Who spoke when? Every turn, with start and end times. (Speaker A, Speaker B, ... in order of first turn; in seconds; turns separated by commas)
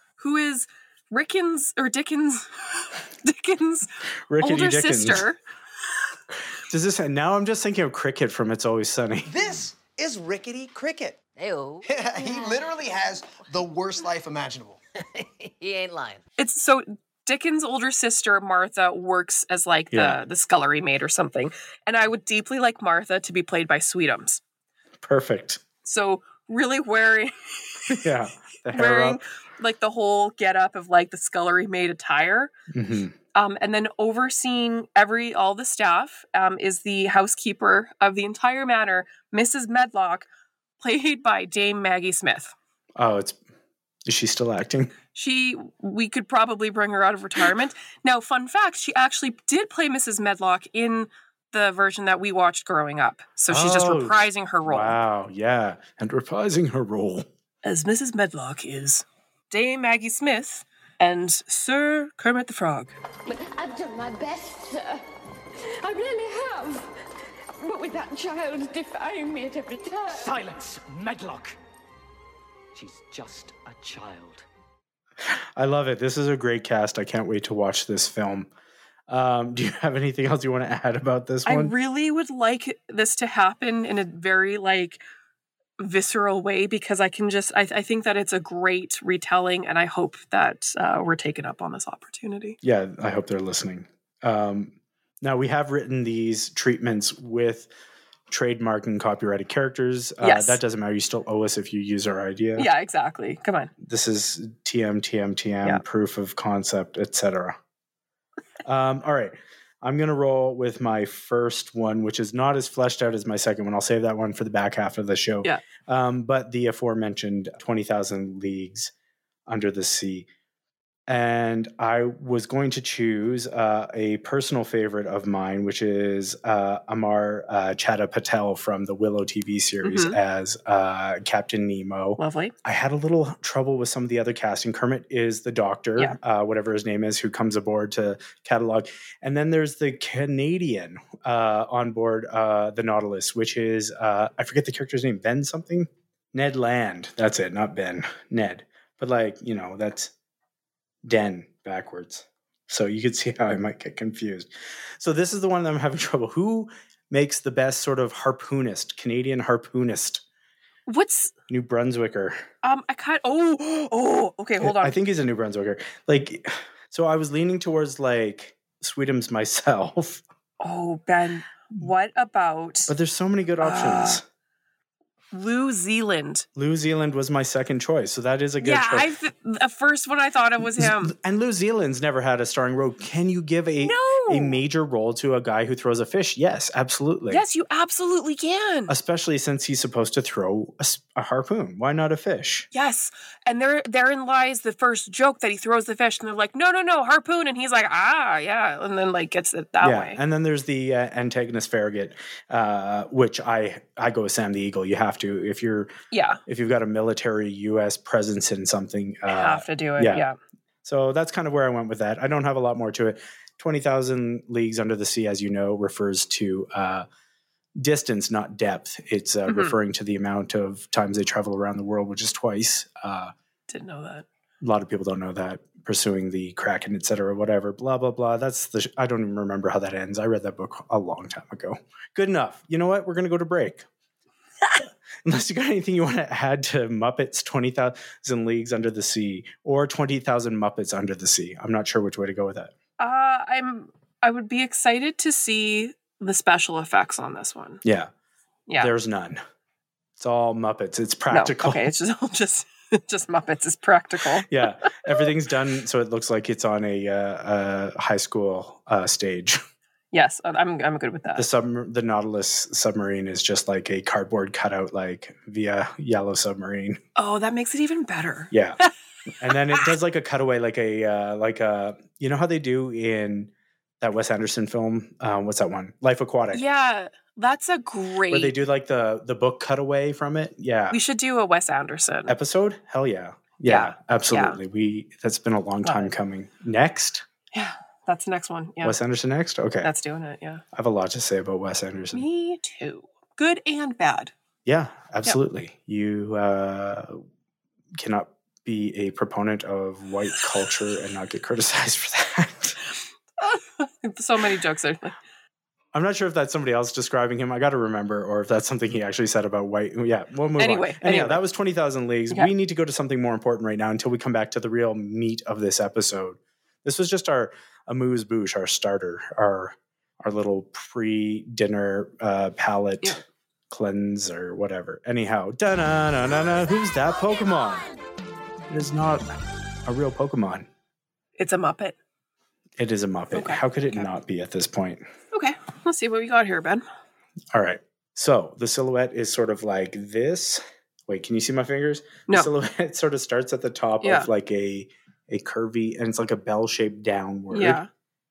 Speaker A: 0.2-5.4, Speaker B: 4.3-5.3, Speaker B: 6.7-9.5, Speaker C: 9.3-11.2, Speaker D: 11.3-12.7, Speaker C: 11.9-14.8, Speaker D: 15.2-16.2, Speaker A: 16.4-24.4, Speaker B: 19.9-20.2, Speaker B: 25.0-25.6, Speaker A: 25.8-28.0, Speaker B: 27.9-29.2, Speaker A: 28.7-32.5, Speaker B: 32.7-33.1, Speaker A: 33.4-40.3, Speaker A: 40.8-42.5, Speaker B: 43.0-43.4, Speaker B: 44.0-44.9, Speaker A: 45.1-55.0, Speaker B: 53.5-57.3, Speaker A: 57.6-63.0, Speaker E: 63.4-64.9, Speaker E: 65.8-66.8, Speaker E: 67.6-70.1, Speaker D: 70.1-71.6, Speaker D: 72.8-74.5, Speaker B: 75.6-78.5, Speaker B: 79.1-81.7, Speaker A: 81.5-85.0, Speaker A: 85.8-92.6, Speaker B: 92.6-97.7, Speaker B: 98.3-102.7, Speaker A: 100.2-100.6, Speaker A: 102.6-103.7, Speaker B: 103.8-107.6, Speaker B: 108.6-118.9, Speaker B: 119.5-120.3, Speaker B: 121.1-150.1, Speaker A: 129.8-130.2, Speaker A: 132.2-132.5, Speaker B: 151.0-160.2, Speaker A: 160.9-161.3, Speaker B: 161.5-162.4, Speaker A: 162.6-165.0, Speaker B: 164.6-170.2, Speaker A: 170.6-172.9, Speaker B: 172.9-174.2, Speaker A: 173.6-174.2, Speaker A: 175.3-176.5, Speaker B: 176.6-179.1, Speaker A: 178.6-181.1, Speaker B: 180.6-187.4, Speaker A: 183.8-184.6, Speaker A: 187.3-188.9, Speaker B: 188.9-192.7, Speaker A: 192.7-200.2, Speaker B: 199.8-205.9, Speaker A: 206.1-206.4, Speaker B: 206.5-210.3, Speaker A: 209.3-210.4, Speaker B: 210.8-217.1, Speaker B: 217.8-223.3, Speaker A: 219.5-219.8, Speaker A: 223.7-224.3, Speaker B: 224.6-233.9, Speaker B: 235.2-242.7, Speaker A: 243.0-247.8, Speaker B: 247.8-248.1, Speaker B: 248.8-249.4, Speaker B: 250.2-251.9, Speaker A: 251.3-255.2, Speaker B: 254.4-259.6, Speaker A: 260.1-261.5, Speaker B: 261.4-267.0, Speaker A: 267.2-268.9, Speaker B: 268.5-268.8, Speaker B: 269.4-276.6, Speaker A: 269.5-269.9, Speaker A: 276.5-278.5, Speaker B: 278.3-281.0, Speaker A: 280.9-282.4, Speaker B: 282.3-287.2, Speaker A: 283.6-284.6, Speaker A: 285.8-286.1, Speaker A: 287.5-289.0, Speaker B: 288.8-289.9, Speaker A: 289.8-290.6, Speaker B: 290.7-292.2, Speaker A: 292.1-294.3, Speaker B: 294.7-297.2, Speaker B: 298.0-302.8, Speaker A: 303.4-305.2, Speaker B: 305.9-323.2, Speaker A: 310.6-311.4, Speaker B: 323.7-327.9, Speaker B: 328.7-329.3, Speaker B: 329.9-330.7, Speaker A: 331.4-332.0, Speaker B: 332.8-335.1, Speaker A: 333.3-334.1, Speaker A: 335.3-336.9, Speaker B: 337.5-347.8, Speaker A: 344.0-344.3, Speaker A: 347.5-347.9